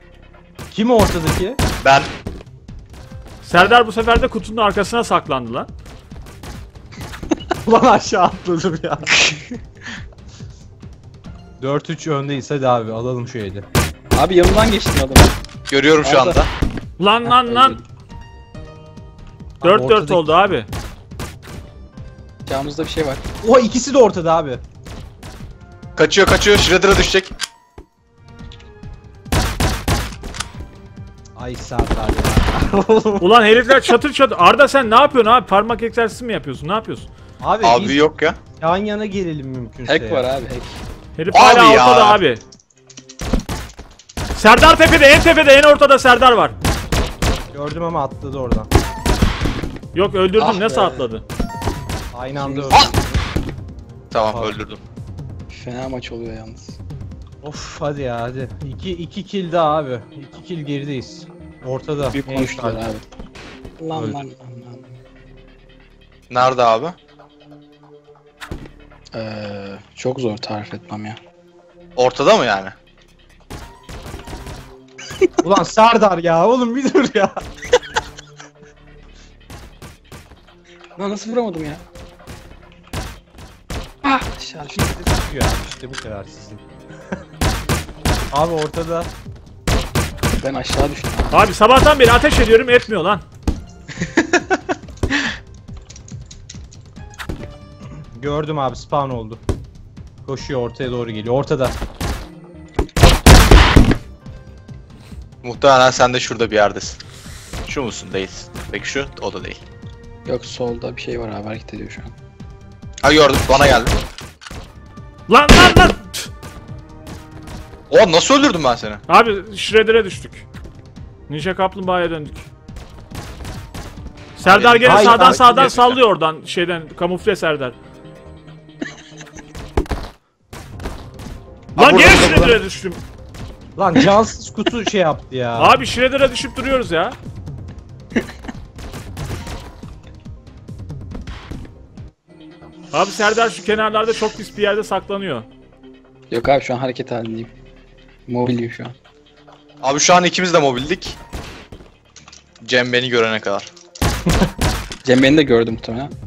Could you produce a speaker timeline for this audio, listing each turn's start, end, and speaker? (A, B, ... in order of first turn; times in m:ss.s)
0:00.7-0:01.6 A
0:01.8-0:02.1 B
0:03.4-0:05.7 C
0:07.6-0:09.2 A
0:11.6-0:13.7 A
0:14.1-0:15.4 D
0:15.7-0:16.5 B
0:16.0-0:16.4 D
0:17.0-0:17.8 C
0:17.2-0:17.8 D
0:19.6-0:20.5 A
0:19.6-0:20.7 C
0:22.5-0:23.2 D
0:23.4-0:24.6 A
0:26.0-0:27.3 B
0:31.4-0:33.3 A
0:33.2-0:37.1 C
0:37.4-0:38.0 A
0:37.6-0:38.4 B
0:38.6-0:40.2 A
0:39.9-0:40.8 D
0:41.2-0:42.4 C
0:41.3-0:42.2 B
0:44.4-0:46.6 C
0:47.5-0:48.7 A
0:49.9-0:51.2 C
0:50.4-0:51.0 D
0:52.1-0:53.2 A
0:52.4-0:52.9 D
0:54.1-0:54.8 B
0:54.3-0:54.6 A
0:55.5-0:56.8 D
0:57.4-1:02.8 A
1:02.1-1:03.0 D
1:03.8-1:04.8 D
1:03.9-1:04.2 A
1:06.3-1:07.0 B
1:09.1-1:11.2 D
1:12.0-1:12.8 B
1:15.4-1:17.4 A
1:21.0-1:21.8 D
1:24.0-1:24.8 D
1:24.7-1:26.6 A
1:28.3-1:29.1 A
1:30.4-1:31.5 D
1:31.3-1:33.2 C
1:38.2-1:39.4 A
1:40.2-1:41.8 A
1:45.4-1:47.0 B
1:47.7-1:49.6 B
1:50.2-1:52.1 D
1:53.0-1:53.9 B
1:55.3-1:56.3 C
1:57.9-1:59.0 B
1:59.1-2:00.4 C
2:01.3-2:02.5 C
2:04.4-2:07.8 C
2:04.4-2:06.0 B
2:04.8-2:05.7 A
2:11.8-2:13.0 C
2:11.8-2:12.6 B
2:13.8-2:15.8 A
2:15.6-2:17.2 C
2:22.9-2:25.5 C
2:26.3-2:27.5 D
2:28.3-2:29.0 D
2:29.8-2:31.2 B
2:32.6-2:33.7 B
2:34.3-2:34.6 A
2:35.0-2:36.1 D